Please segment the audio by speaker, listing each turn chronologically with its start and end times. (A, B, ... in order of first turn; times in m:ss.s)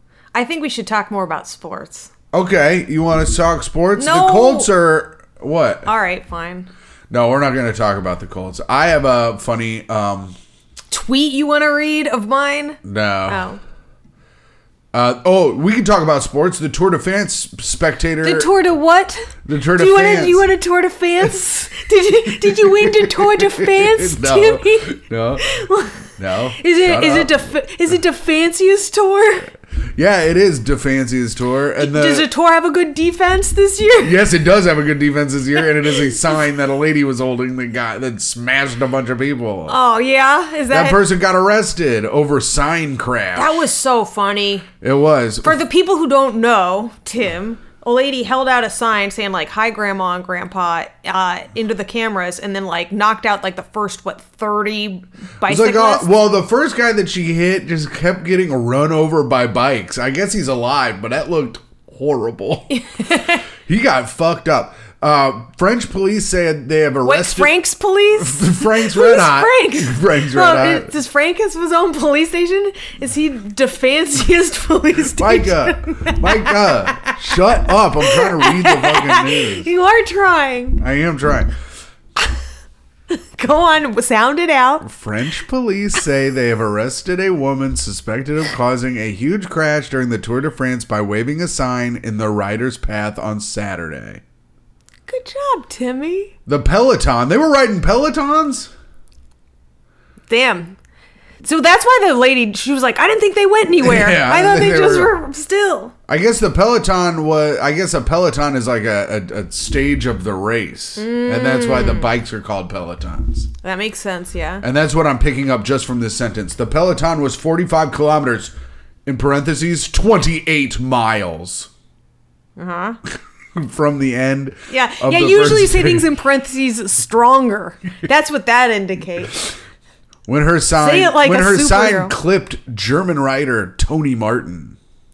0:00.3-0:02.1 A
0:02.3-0:05.9 B
0:04.0-0:04.7 A
0:05.8-0:06.7 A
0:07.1-0:10.4 B
0:10.9-0:13.6 A
0:12.8-0:13.5 B
0:14.9-0:18.5 B
0:18.2-0:26.0 A
0:19.4-0:20.5 B
0:22.9-0:25.4 B
0:26.2-0:27.4 B
0:26.6-0:29.5 A
0:30.0-0:32.3 B
0:31.8-0:34.2 A
0:34.0-0:39.8 B
0:35.8-0:36.2 A
0:39.7-0:41.0 A
0:40.7-0:43.6 B
0:43.4-0:44.7 A
0:44.8-0:45.6 B
0:45.4-0:56.1 A
0:55.4-1:02.7 B
1:02.7-1:03.4 A
1:03.6-1:07.6 B
1:07.0-1:17.1 A
1:08.2-1:10.9 B
1:15.2-1:19.7 B
1:18.0-1:20.8 A
1:20.8-1:21.5 B
1:23.1-1:24.8 A
1:24.8-1:34.2 B
1:35.1-1:36.3 A
1:36.4-1:38.7 B
1:40.3-1:40.8 A
1:41.4-1:45.9 A
1:43.8-1:45.1 B
1:46.1-1:53.5 B
1:51.0-1:52.1 A
1:53.6-1:54.6 A
1:54.6-1:58.5 B
1:59.0-2:01.7 B
2:02.6-2:03.0 A
2:03.5-2:06.0 B
2:04.7-2:09.4 A
2:10.3-2:14.8 B
2:10.8-2:12.1 A